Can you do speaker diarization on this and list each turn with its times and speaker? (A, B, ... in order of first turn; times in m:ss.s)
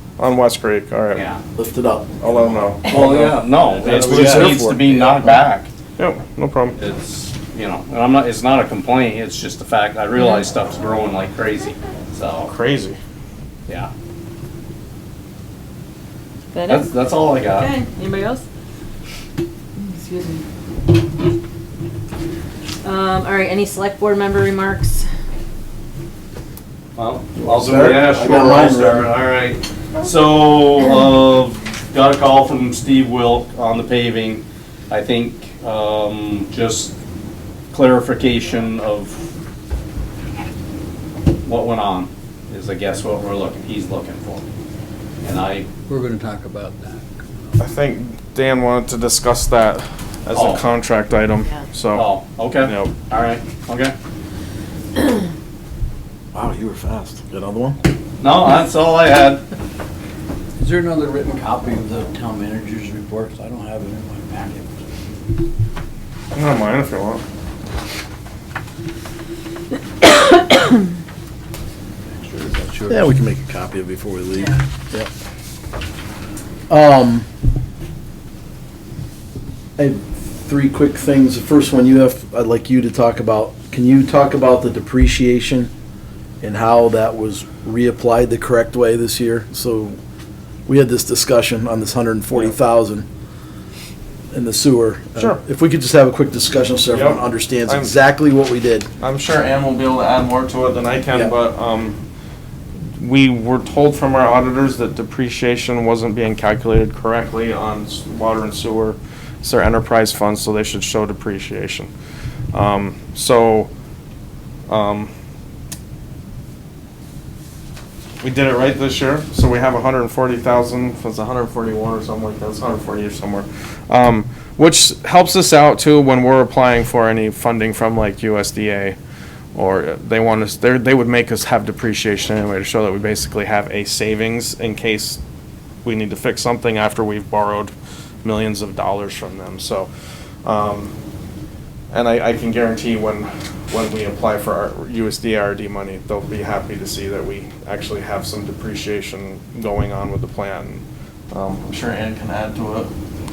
0:00.2-0:01.2 A
0:01.1-0:01.4 B
0:01.6-0:05.4 C
0:02.2-0:03.0 A
0:02.9-0:05.7 B
0:04.0-0:04.5 A
0:06.0-0:06.8 A
0:06.8-0:12.5 B
0:12.4-0:13.0 A
0:16.6-0:16.9 D
0:16.6-0:17.8 B
0:17.6-0:18.4 D
0:20.1-0:20.3 D
0:22.8-0:25.0 D
0:27.0-0:36.9 B
0:27.4-0:29.1 C
0:37.7-0:39.2 B
0:41.4-0:44.4 B
0:45.2-0:45.7 B
0:45.9-0:47.6 E
0:47.6-0:52.1 A
0:50.3-0:50.7 B
0:51.9-0:53.9 B
0:52.6-0:52.9 A
0:56.3-0:57.8 C
0:58.2-0:59.4 B
1:00.6-1:04.8 E
1:06.3-1:07.2 A
1:12.2-1:13.1 E
1:12.9-1:15.1 C
1:16.7-1:17.2 C
1:19.8-1:25.7 C
1:26.4-1:30.0 C
1:30.7-1:33.1 C
1:34.3-1:38.9 C
1:36.9-1:38.0 A
1:39.0-1:42.0 A
1:43.0-1:51.9 A
1:52.5-1:53.7 A
1:54.7-1:55.1 A
1:58.2-2:09.0 A
2:09.6-2:15.2 A
2:15.8-2:17.7 A
2:18.2-2:19.9 A
2:20.4-2:20.9 A
2:21.9-2:32.9 A